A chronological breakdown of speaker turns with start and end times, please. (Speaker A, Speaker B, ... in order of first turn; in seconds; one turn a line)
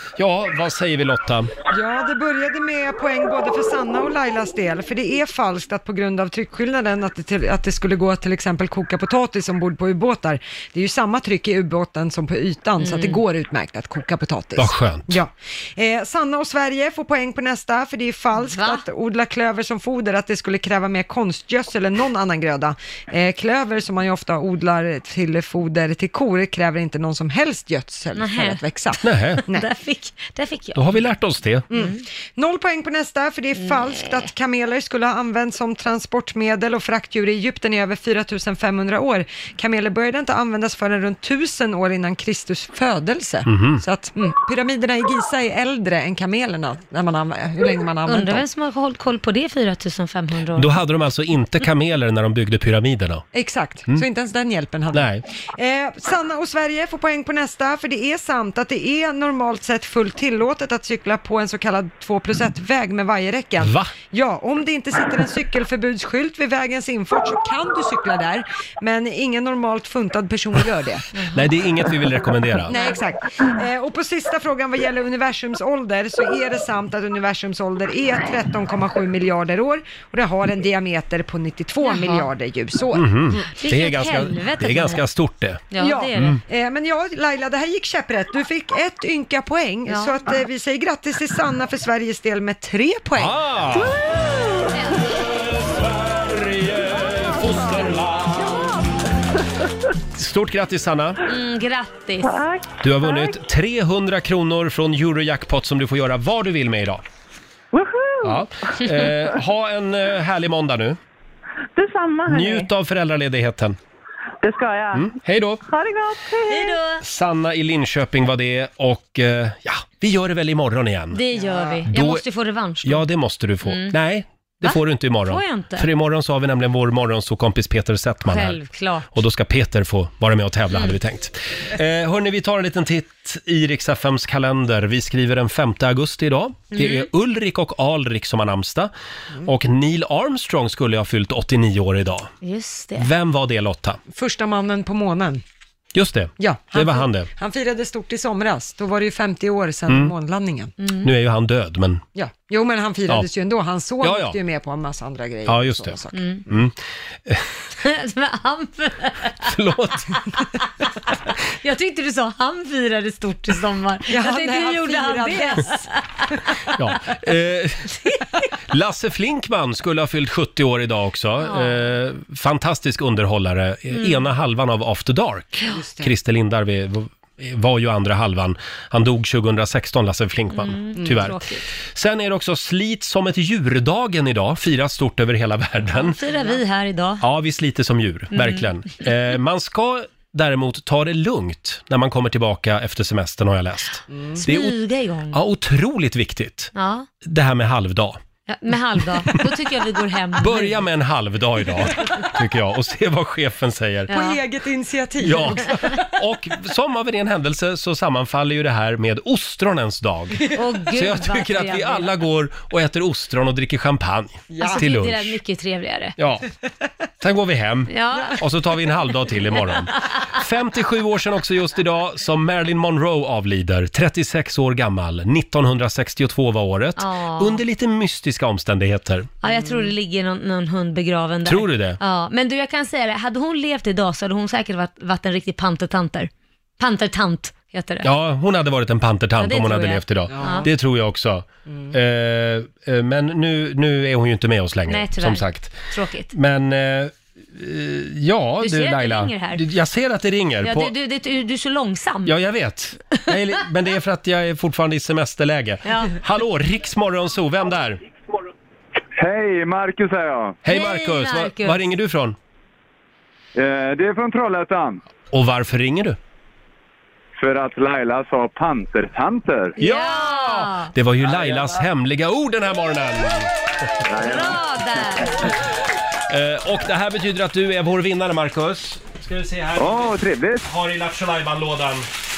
Speaker A: 0.2-1.5
Speaker B: 1.7-29.7
Speaker C: 12.8-13.2
Speaker A: 14.6-15.2
Speaker C: 18.5-18.8
Speaker C: 28.1-28.6
Speaker A: 29.0-29.4
Speaker C: 29.5-31.0
Speaker A: 30.8-31.7
Speaker B: 31.7-48.5
Speaker C: 33.7-34.1
Speaker A: 43.5-43.8
Speaker C: 48.1-50.7
Speaker A: 50.6-53.2
Speaker B: 53.3-71.1
Speaker A: 54.9-55.2
Speaker A: 63.6-63.9
Speaker C: 71.2-71.4
Speaker A: 71.3-72.7
Speaker B: 72.7-83.5
Speaker C: 81.8-82.3
Speaker A: 82.9-85.6
Speaker C: 83.6-85.0
Speaker C: 85.7-86.4
Speaker B: 85.8-93.4
Speaker C: 89.9-90.1
Speaker A: 93.2-94.0
Speaker C: 94.8-95.0
Speaker A: 95.2-98.7
Speaker A: 100.1-101.2
Speaker C: 101.2-102.4
Speaker D: 102.2-103.4
Speaker A: 102.8-107.0
Speaker D: 107.7-109.3
Speaker A: 108.2-111.0
Speaker D: 111.8-112.7
Speaker A: 112.3-113.8
Speaker D: 114.4-116.8
Speaker A: 114.9-115.6
Speaker C: 116.5-117.0
Speaker A: 117.0-121.2
Speaker C: 121.1-123.1
Speaker A: 121.9-122.2
Speaker A: 122.8-128.6
Speaker C: 123.6-124.0
Speaker C: 124.6-125.9
Speaker C: 128.2-129.1
Speaker A: 129.1-138.9
Speaker C: 136.8-137.1
Speaker A: 139.4-142.3
Speaker C: 142.4-143.1
Speaker A: 143.0-144.0
Speaker B: 144.1-145.4
Speaker A: 145.9-147.3
Speaker B: 146.4-150.7
Speaker C: 150.8-151.1
Speaker A: 151.0-152.0
Speaker B: 152.2-156.2
Speaker A: 154.0-154.4
Speaker A: 155.5-157.5
Speaker C: 156.1-156.4
Speaker C: 157.8-159.5
Speaker A: 159.4-160.2
Speaker C: 161.6-166.3
Speaker B: 164.1-165.9
Speaker A: 166.7-168.0
Speaker A: 168.7-186.2
Speaker C: 171.4-171.9
Speaker C: 173.9-174.2
Speaker B: 175.6-176.1
Speaker C: 180.6-181.7
Speaker C: 185.9-187.2
Speaker A: 187.2-194.8
Speaker C: 188.3-188.7
Speaker B: 194.1-194.4
Speaker C: 194.4-195.4
Speaker A: 195.3-198.2
Speaker C: 196.8-197.1
Speaker C: 198.5-200.8
Speaker A: 200.4-204.1
Speaker C: 204.1-204.4
Speaker B: 204.1-205.9
Speaker A: 205.2-215.4
Speaker C: 210.5-212.1
Speaker B: 214.5-214.8
Speaker C: 214.6-216.2
Speaker A: 216.2-216.4
Speaker A: 217.2-229.3
Speaker C: 217.9-218.4
Speaker C: 227.0-227.6
Speaker C: 229.4-238.1
Speaker A: 231.4-232.0
Speaker A: 238.0-245.8
Speaker C: 239.4-240.7
Speaker B: 240.3-240.7
Speaker C: 244.9-246.3
Speaker A: 246.3-250.9
Speaker C: 248.6-249.6
Speaker C: 250.6-252.3
Speaker A: 252.2-258.0
Speaker C: 255.9-256.1
Speaker E: 259.2-260.6
Speaker A: 260.6-262.4
Speaker C: 260.7-261.9
Speaker E: 263.6-265.0
Speaker A: 265.3-266.2
Speaker E: 267.4-269.8
Speaker C: 269.8-270.9
Speaker A: 269.8-273.5
Speaker E: 271.3-271.7
Speaker E: 274.1-274.7
Speaker C: 274.1-275.5
Speaker A: 276.3-282.1
Speaker E: 279.8-280.6